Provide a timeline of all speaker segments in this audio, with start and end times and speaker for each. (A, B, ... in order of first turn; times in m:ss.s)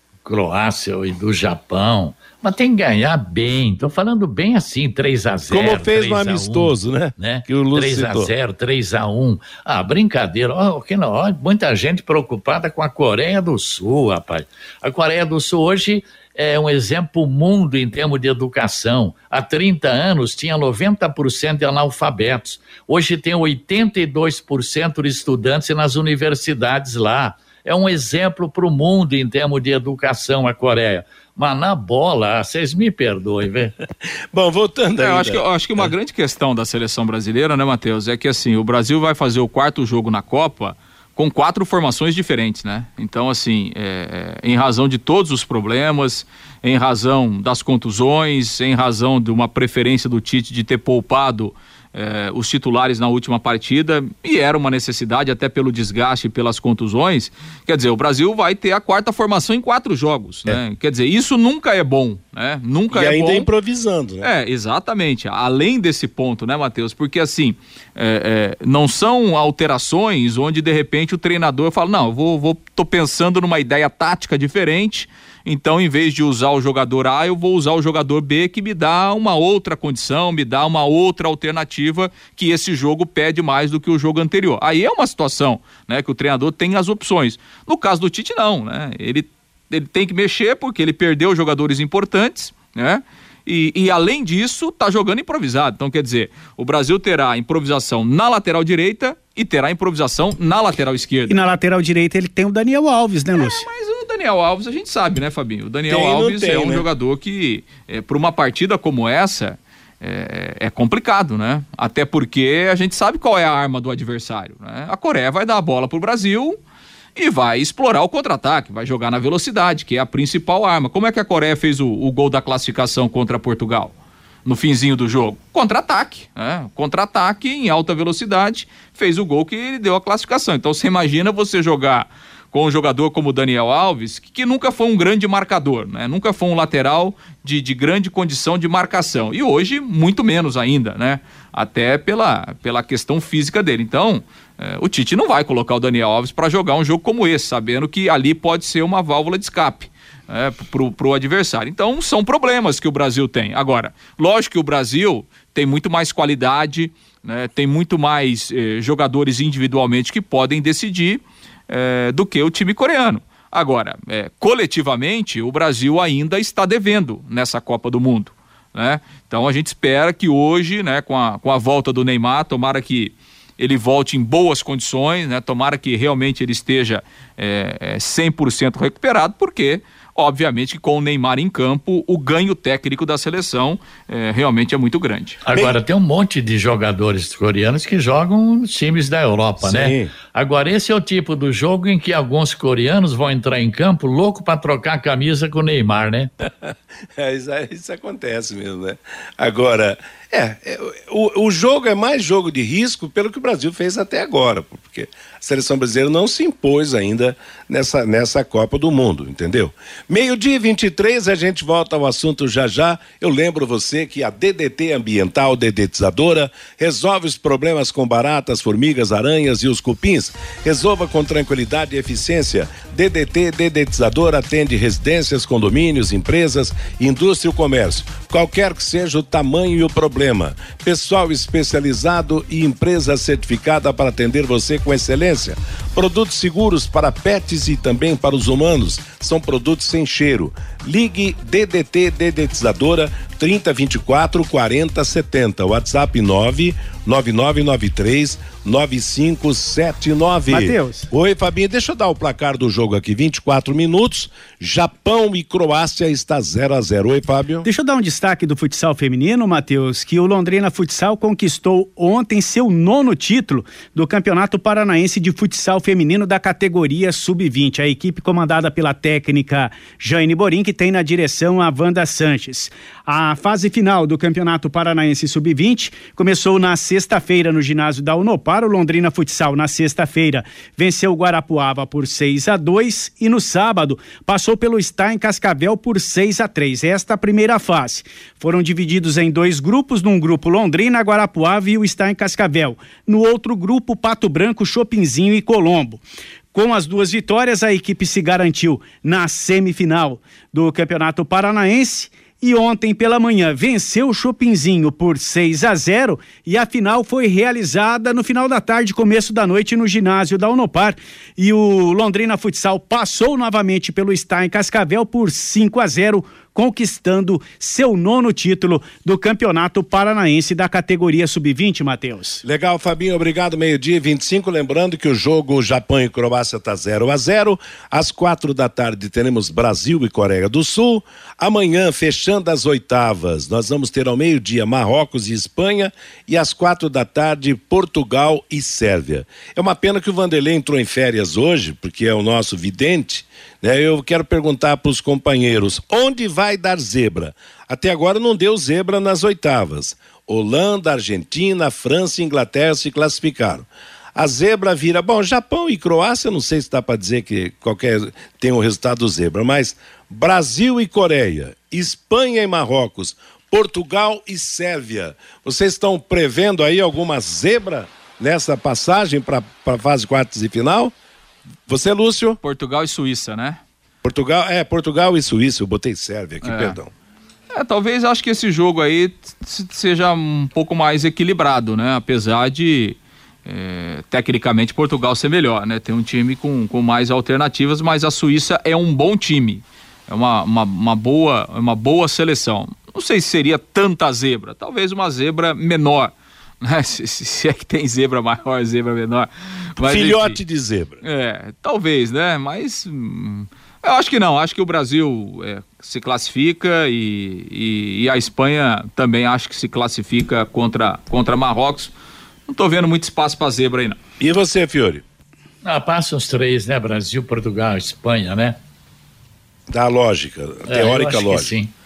0:00.2-0:33.7 A
0:05.5-0:08.3 B
0:34.3-0:35.9 B
0:35.0-1:03.5 C
1:02.9-1:04.3 B
1:04.2-1:41.4 C
1:41.3-1:43.7 D
1:43.4-1:56.6 C
1:45.9-1:46.9 B
1:57.2-2:03.9 C
2:04.4-3:05.4 C
3:05.4-3:16.3 A
3:09.6-3:10.1 B
3:16.4-4:17.7 B
4:10.5-4:11.1 D
4:17.6-4:56.0 D
4:56.5-5:22.4 D
5:22.4-6:10.9 B
6:11.7-6:12.4 B
6:12.4-6:13.6 C
6:14.0-6:16.9 B
6:16.4-6:16.8 C
6:17.5-6:40.4 C
6:39.8-6:41.0 B
6:41.0-6:51.9 C
6:52.5-6:54.0 C
6:54.2-6:55.0 B
6:55.6-6:58.6 A
6:59.7-7:01.5 B
7:00.7-7:01.7 A